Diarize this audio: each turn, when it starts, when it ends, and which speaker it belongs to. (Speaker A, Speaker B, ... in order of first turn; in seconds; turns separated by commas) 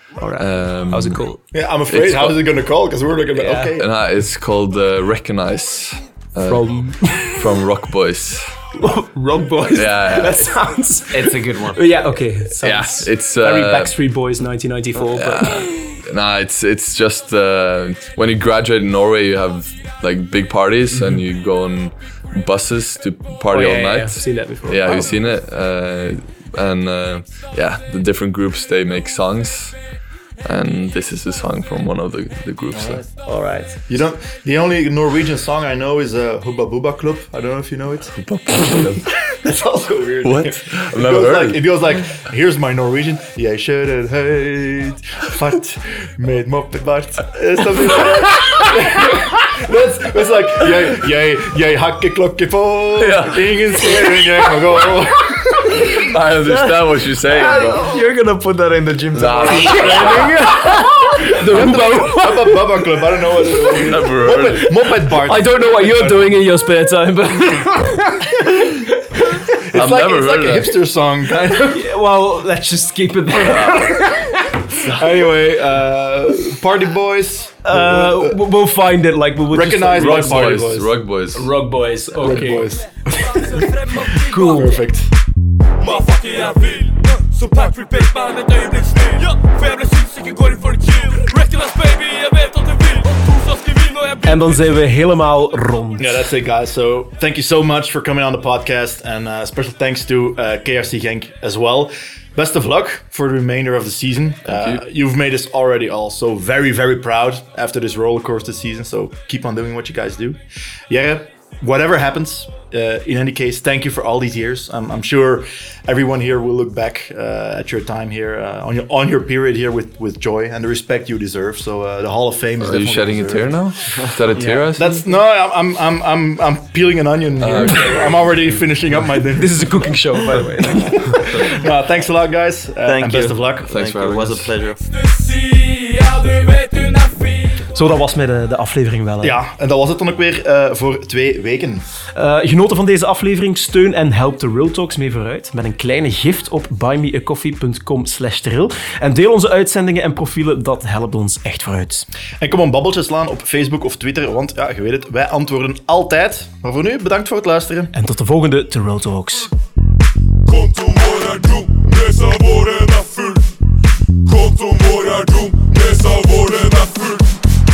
Speaker A: 0.2-1.4, Speaker B: 0.3-1.2, Speaker C: 1.5-3.9, Speaker B: 1.9-2.4, Speaker A: 3.3-3.8, Speaker B: 3.7-8.6, Speaker A: 6.5-7.4, Speaker A: 8.7-15.7, Speaker B: 9.7-10.6, Speaker D: 11.1-11.8, Speaker B: 12.6-13.9, Speaker B: 15.1-29.8, Speaker A: 23.5-25.1, Speaker B: 30.4-33.0, Speaker C: 32.7-33.0, Speaker D: 33.0-33.8, Speaker C: 33.9-38.1, Speaker B: 38.1-39.1, Speaker C: 39.2-56.0, Speaker B: 40.2-41.6, Speaker B: 53.0-54.4, Speaker B: 55.7-57.9, Speaker D: 56.5-60.6, Speaker B: 59.1-60.4, Speaker A: 59.5-63.9, Speaker C: 61.2-66.3, Speaker B: 63.6-64.8, Speaker A: 65.1-68.8, Speaker C: 69.5-71.9, Speaker B: 69.7-70.7, Speaker A: 71.7-75.1, Speaker B: 73.5-73.9, Speaker C: 74.7-78.5, Speaker A: 77.6-80.6, Speaker C: 79.5-80.9, Speaker B: 79.9-81.5, Speaker A: 81.3-82.7, Speaker C: 82.2-85.1, Speaker E: 83.3-84.8, Speaker E: 85.8-94.5, Speaker A: 94.2-96.2, Speaker C: 96.0-123.6, Speaker B: 104.5-104.8, Speaker B: 122.6-125.0, Speaker A: 124.3-124.6, Speaker C: 124.7-129.9, Speaker B: 127.4-128.3, Speaker A: 129.3-131.6, Speaker C: 130.9-133.9, Speaker D: 131.3-131.6, Speaker D: 132.8-134.8, Speaker B: 133.6-134.5, Speaker E: 134.9-137.7, Speaker A: 137.7-139.4, Speaker C: 139.2-141.8, Speaker A: 142.1-152.1, Speaker C: 152.4-157.9, Speaker A: 157.9-159.5, Speaker E: 160.5-163.5, Speaker E: 164.2-167.3